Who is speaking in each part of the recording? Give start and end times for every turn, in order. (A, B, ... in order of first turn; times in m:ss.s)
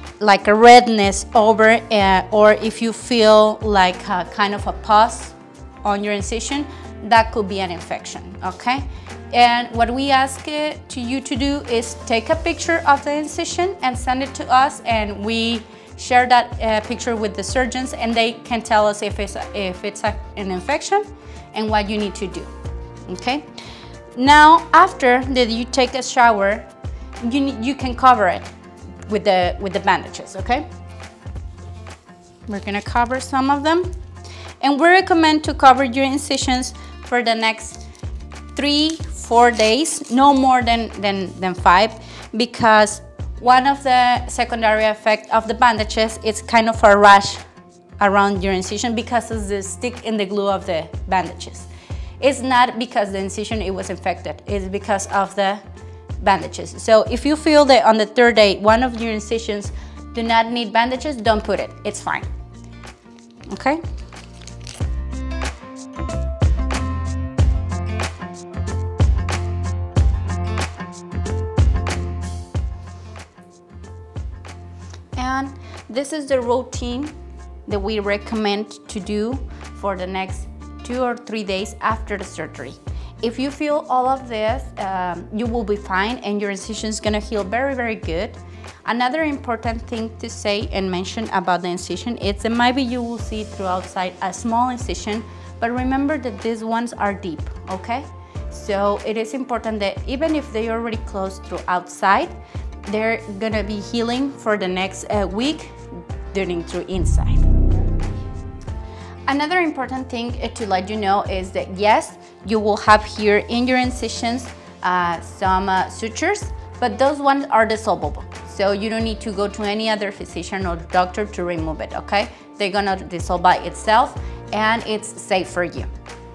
0:00.2-0:22.5 A
0:23.1-0:23.5 A
0:24.1-0:26.7 A
0:27.2-0:28.4 A
0:29.0-0:30.6 A
0:32.5-0:33.9 A
0:34.6-0:37.9 A
0:38.5-0:47.4 A
0:48.0-0:51.7 A
0:52.2-0:55.6 A
0:56.2-1:02.3 A
1:03.5-1:03.8 A
1:15.2-1:17.1 A
1:17.7-1:42.3 A
1:42.8-1:45.7 A
1:46.3-1:47.5 A
1:49.3-2:05.9 A